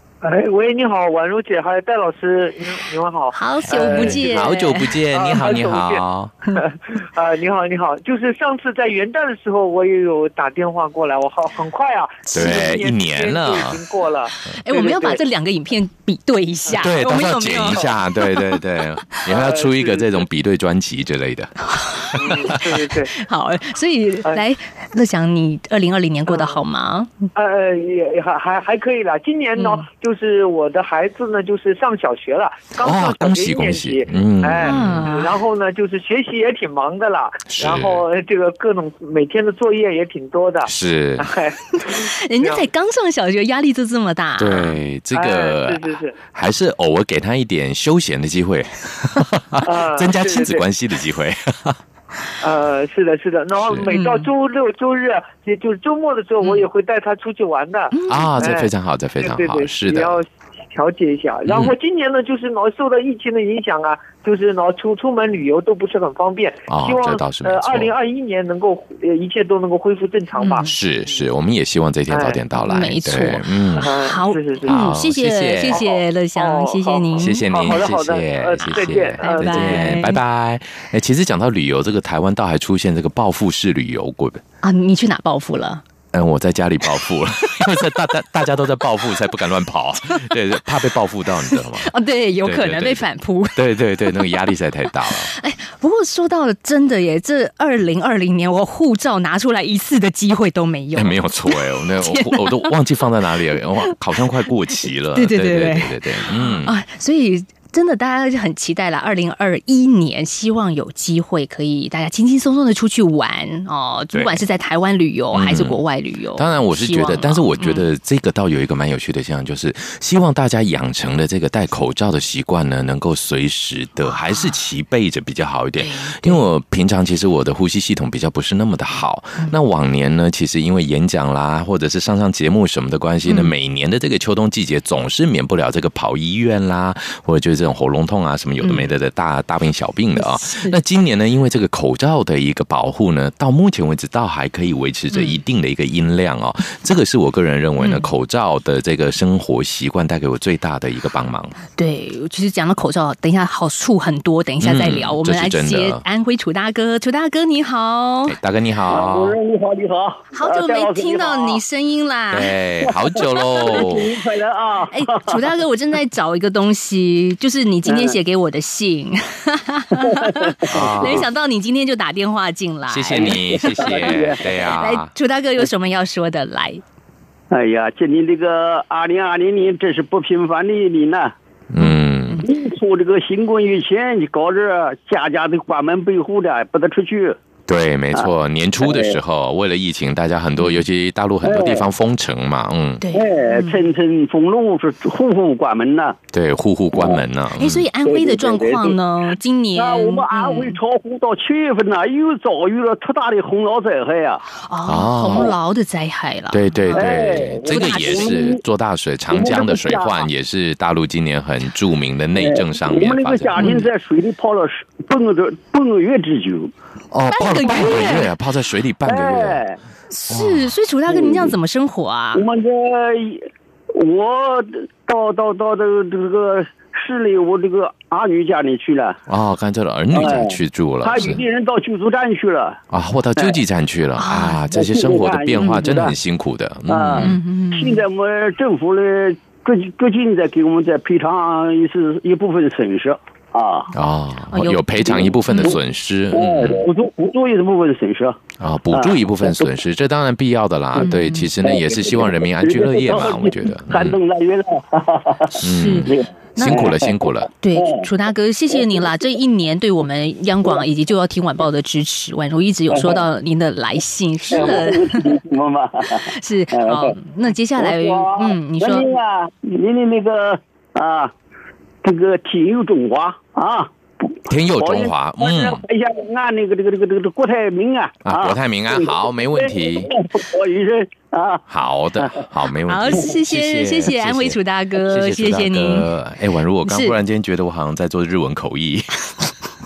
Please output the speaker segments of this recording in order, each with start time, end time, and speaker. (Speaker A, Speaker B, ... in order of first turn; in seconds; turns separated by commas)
Speaker A: 0.2-4.2, Speaker B: 3.3-4.9, Speaker C: 3.7-6.3, Speaker A: 5.1-6.0, Speaker A: 6.5-15.2, Speaker C: 12.3-13.8, Speaker B: 12.3-12.7, Speaker B: 14.5-18.4, Speaker C: 16.8-21.5, Speaker A: 19.3-20.2, Speaker B: 21.7-22.2, Speaker C: 22.1-22.8, Speaker A: 22.2-23.2, Speaker B: 23.2-27.1, Speaker A: 26.3-26.6, Speaker A: 27.4-42.6, Speaker B: 29.6-29.8, Speaker C: 32.8-35.0, Speaker B: 34.6-35.3, Speaker C: 37.5-38.0, Speaker C: 40.6-41.3, Speaker B: 41.9-44.8, Speaker C: 44.4-51.8, Speaker A: 45.1-46.1, Speaker A: 49.6-50.6, Speaker A: 52.4-71.2, Speaker C: 53.5-53.9, Speaker B: 53.9-54.3, Speaker B: 57.9-58.3, Speaker C: 58.1-60.2, Speaker C: 61.5-61.7, Speaker C: 66.7-67.9, Speaker B: 70.4-70.8, Speaker C: 70.7-73.9, Speaker A: 72.1-72.4, Speaker B: 72.6-77.5, Speaker A: 73.8-74.8, Speaker C: 74.7-75.8, Speaker A: 75.7-80.0, Speaker C: 77.2-84.4, Speaker B: 78.6-80.2, Speaker B: 84.6-85.8, Speaker C: 86.1-91.9, Speaker B: 91.5-94.4, Speaker C: 92.4-95.3, Speaker B: 95.3-102.7, Speaker C: 101.0-106.7, Speaker B: 105.1-117.9, Speaker C: 114.1-114.4, Speaker C: 115.3-115.8, Speaker C: 116.4-151.6, Speaker B: 124.0-124.6, Speaker B: 125.8-126.4, Speaker B: 133.3-133.5, Speaker B: 138.6-138.9, Speaker B: 140.2-140.8, Speaker B: 145.1-145.4, Speaker B: 147.8-148.1, Speaker B: 151.8-158.4, Speaker C: 154.6-156.0, Speaker C: 158.3-159.4, Speaker D: 158.9-161.6, Speaker B: 160.3-162.5, Speaker C: 162.3-164.1, Speaker D: 162.9-165.4, Speaker B: 163.6-163.9, Speaker B: 164.9-174.2, Speaker D: 167.9-168.2, Speaker D: 170.0-171.2, Speaker C: 170.7-171.3, Speaker C: 172.9-175.1, Speaker D: 173.1-174.5, Speaker B: 174.7-176.8, Speaker D: 177.5-181.3, Speaker C: 181.7-182.5, Speaker B: 181.8-182.4, Speaker D: 182.4-187.4, Speaker C: 187.7-193.0, Speaker D: 188.8-189.2, Speaker D: 191.4-191.8, Speaker B: 193.0-193.8, Speaker D: 193.1-196.2, Speaker C: 196.3-197.8, Speaker B: 197.6-200.8, Speaker D: 198.0-199.0, Speaker D: 199.8-204.4, Speaker B: 204.6-208.4, Speaker C: 204.9-205.5, Speaker C: 206.5-213.9, Speaker D: 206.9-208.6, Speaker D: 209.3-210.2, Speaker D: 212.4-216.7, Speaker B: 213.6-213.8, Speaker C: 217.1-219.7, Speaker B: 217.3-218.3, Speaker D: 217.5-218.2, Speaker D: 219.1-219.8, Speaker B: 220.1-222.4, Speaker C: 220.3-220.7, Speaker D: 221.1-221.5, Speaker D: 222.3-229.2, Speaker C: 229.3-231.4, Speaker D: 230.1-232.8, Speaker C: 232.9-237.4, Speaker B: 234.2-234.6, Speaker D: 234.7-236.2, Speaker B: 235.6-236.0, Speaker D: 236.9-243.9, Speaker B: 237.2-238.0, Speaker C: 243.9-246.9, Speaker B: 244.5-245.8, Speaker D: 245.2-245.7, Speaker D: 246.3-248.4, Speaker C: 248.6-254.2, Speaker D: 248.9-249.7, Speaker B: 251.0-251.5, Speaker D: 251.6-258.1, Speaker B: 255.6-256.9, Speaker C: 255.6-257.5, Speaker B: 257.6-265.3, Speaker D: 262.9-263.2, Speaker D: 264.5-267.2, Speaker B: 266.2-269.1, Speaker D: 267.8-271.3, Speaker D: 272.0-281.6, Speaker C: 274.5-275.8, Speaker C: 278.2-280.1, Speaker C: 281.7-289.5, Speaker B: 282.9-286.1, Speaker B: 286.8-287.2